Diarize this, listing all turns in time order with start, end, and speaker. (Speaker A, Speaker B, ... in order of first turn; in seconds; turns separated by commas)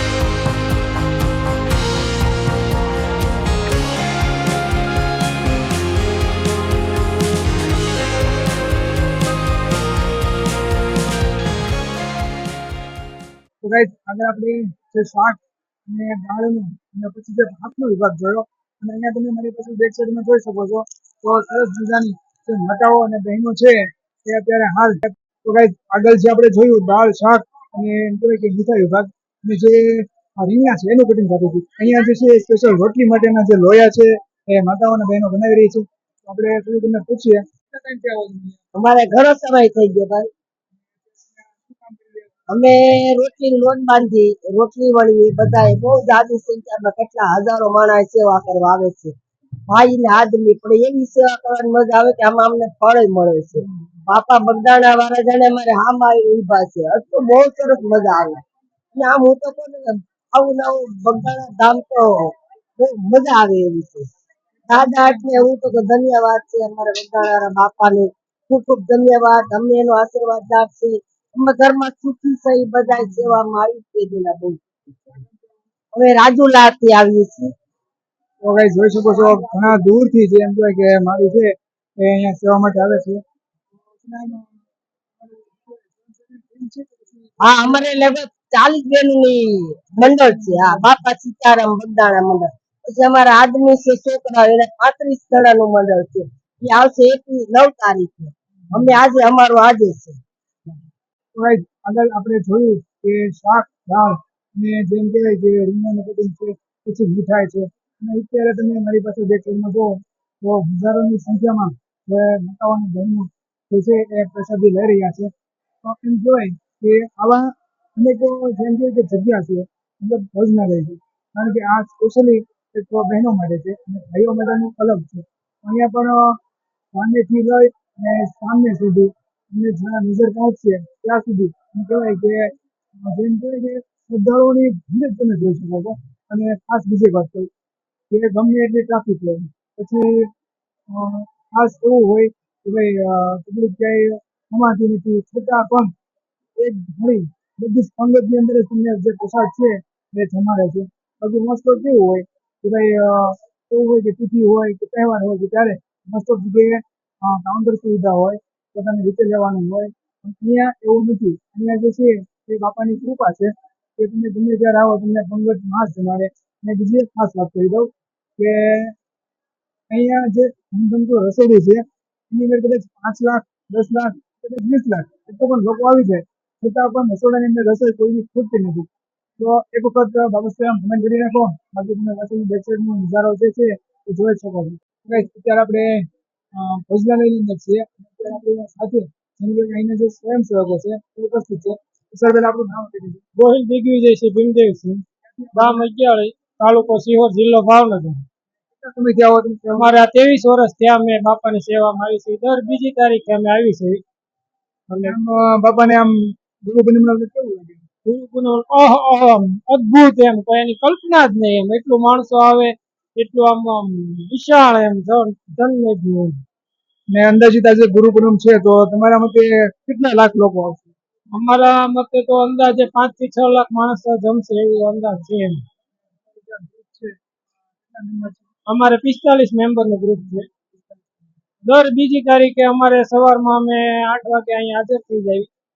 Speaker A: 13.6-38.6, Speaker B: 38.8-40.3, Speaker A: 41.0-42.3, Speaker B: 42.5-49.1, Speaker B: 49.7-58.4, Speaker B: 58.9-64.1, Speaker B: 64.7-74.7, Speaker B: 75.9-77.5, Speaker A: 78.4-83.2, Speaker B: 79.5-79.8, Speaker A: 83.9-84.5, Speaker A: 85.2-87.3, Speaker B: 87.4-100.2, Speaker A: 90.0-90.8, Speaker A: 101.4-115.3, Speaker A: 115.8-126.4, Speaker A: 126.9-137.5, Speaker A: 138.1-140.3, Speaker A: 140.9-145.9, Speaker A: 146.6-168.9, Speaker A: 169.9-193.2, Speaker C: 193.4-195.0, Speaker A: 195.4-195.8, Speaker C: 195.6-198.2, Speaker A: 198.8-199.9, Speaker C: 199.8-204.0, Speaker C: 204.9-205.2, Speaker A: 205.0-207.8, Speaker C: 208.1-216.4, Speaker A: 217.1-220.9, Speaker C: 221.3-225.6, Speaker A: 226.4-227.1, Speaker A: 227.9-228.5, Speaker C: 228.7-230.5, Speaker C: 231.7-235.5